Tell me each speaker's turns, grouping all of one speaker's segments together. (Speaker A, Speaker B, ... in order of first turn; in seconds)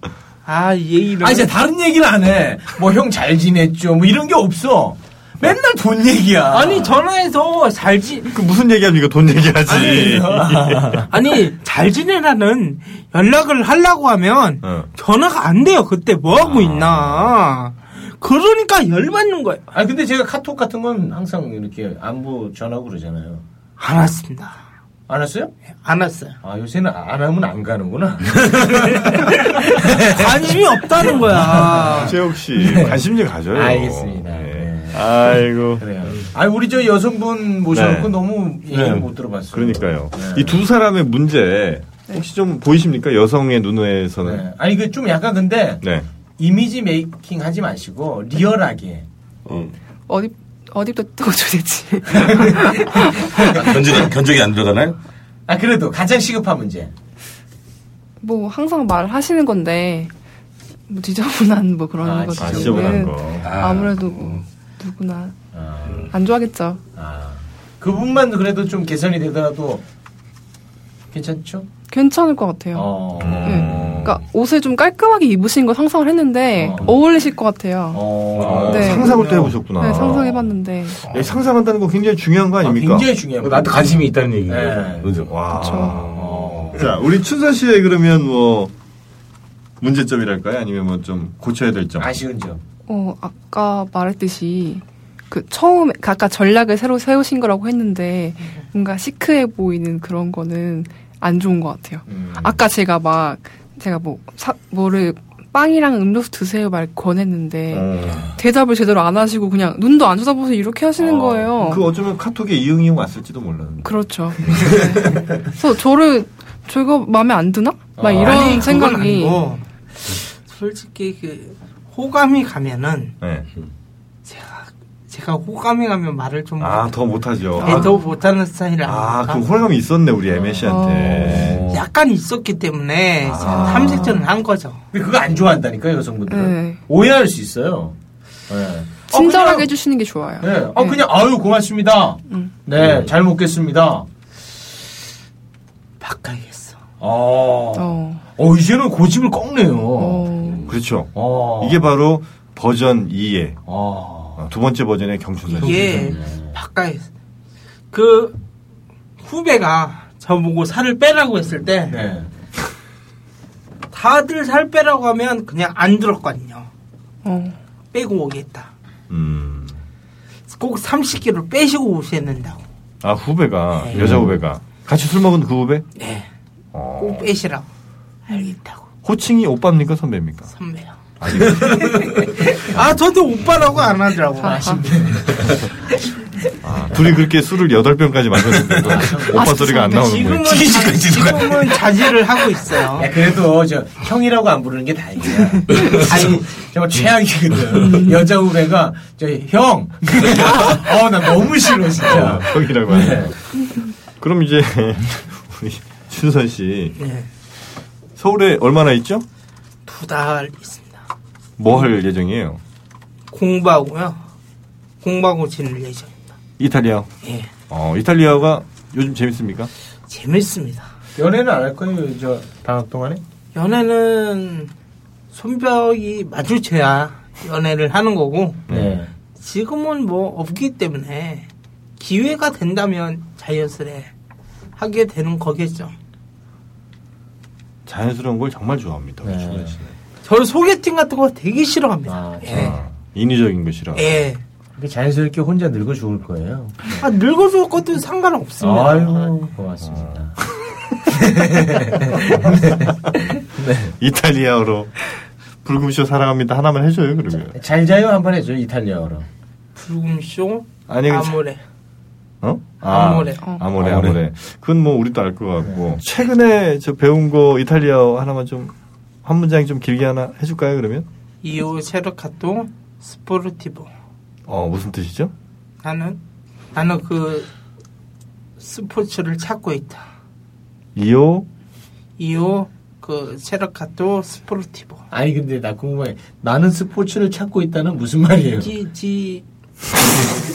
Speaker A: 0.5-1.5, 6.5-8.3, 11.1-19.7, 23.8-24.6, 25.8-26.4, 29.0-32.1, 118.2-123.1, 124.3-127.0, 127.6-129.5, 131.7-134.8, 146.0-146.8, 155.6-157.1, 157.9-158.4, 159.2-162.0, 163.9-166.7, 167.9-168.7, 170.5-172.6, 173.8-174.1, 176.0-176.3, 177.0-177.7, 178.3-178.8, 180.6-181.0, 181.6-184.7, 189.9-193.1, 196.0-196.3, 207.0-207.3, 209.9-211.0, 213.3-214.2, 215.0-216.3, 217.2-217.5, 220.1-220.9, 223.6-224.7, 225.3-228.7, 229.4-234.1, 234.8-235.9, 240.2-242.8, 243.9-244.4, 247.0-249.3, 259.8-261.6, 262.8-263.4, 271.4-273.9, 275.8-276.2, 276.7-277.5, 278.6-280.1, 282.2-285.0, 288.6-289.4
Speaker B: 1.2-6.9, 9.7-11.1, 19.7-23.4, 25.1-25.5, 26.4-33.0, 33.5-40.6, 44.2-45.8, 46.4-49.1, 52.2-53.7, 55.5-56.9, 62.0-63.1, 65.5-66.1, 67.0-69.8, 71.1-71.7, 72.7-74.1, 76.6-76.9, 77.9-79.5, 82.6-85.1, 86.1-86.8, 92.0-92.6, 102.1-102.6, 118.0-118.6, 134.9-137.9, 138.5-139.7, 140.4-144.1, 147.0-150.3, 151.1-151.9, 153.7-154.5, 155.6-156.6, 161.9-162.3, 184.4-185.7, 188.8-189.5, 193.0-203.3, 221.2-223.2, 228.7-229.1, 239.2-239.8, 242.1-242.8, 244.8-247.1, 248.6-250.3, 251.1-253.0, 253.5-253.9, 257.6-259.3, 265.6-266.0, 285.1-288.7
Speaker C: 8.3-11.1, 14.6-14.9, 16.4-17.3, 32.0-35.9, 37.7-38.1, 39.5-44.4, 45.8-46.1, 62.4-63.5, 73.2-74.2, 78.4-80.5, 81.0-83.1, 85.3-88.7, 89.8-92.1, 107.7-108.3, 111.0-114.8, 123.2-123.5, 126.6-127.9, 128.8-131.7, 133.3-134.1, 150.7-153.6, 154.4-156.1, 169.1-169.8, 173.0-175.9, 176.7-177.3, 179.1-180.5, 181.2-182.2, 186.6-190.7, 202.0-203.4, 204.2-207.0, 208.2-209.3, 211.6-212.6, 216.6-217.1, 217.7-219.7, 228.7-229.0, 237.9-239.9, 242.5-244.1, 249.8-250.3, 254.0-255.1, 255.6-257.6, 260.9-261.4, 262.4-271.1, 274.5-275.3, 280.9-281.5
Speaker D: 38.7-39.1, 49.5-49.7, 53.4-55.0, 63.4-64.0, 78.4-78.8, 83.4-85.5, 131.4-131.8, 190.5-191.5, 263.8-264.2
Speaker E: 50.1-53.4, 58.2-60.1, 60.9-65.4, 66.1-66.8, 71.9-78.1, 78.7-79.2, 79.8-81.0, 85.5-86.1, 92.9-111.8, 113.8-119.5, 127.6-128.0, 130.7-131.4, 133.4-134.1, 136.3-136.8, 139.1-141.0, 142.3-142.6, 147.8-148.2, 150.0-150.7, 167.2-167.6, 184.4-184.8, 189.3-190.2, 263.4-263.7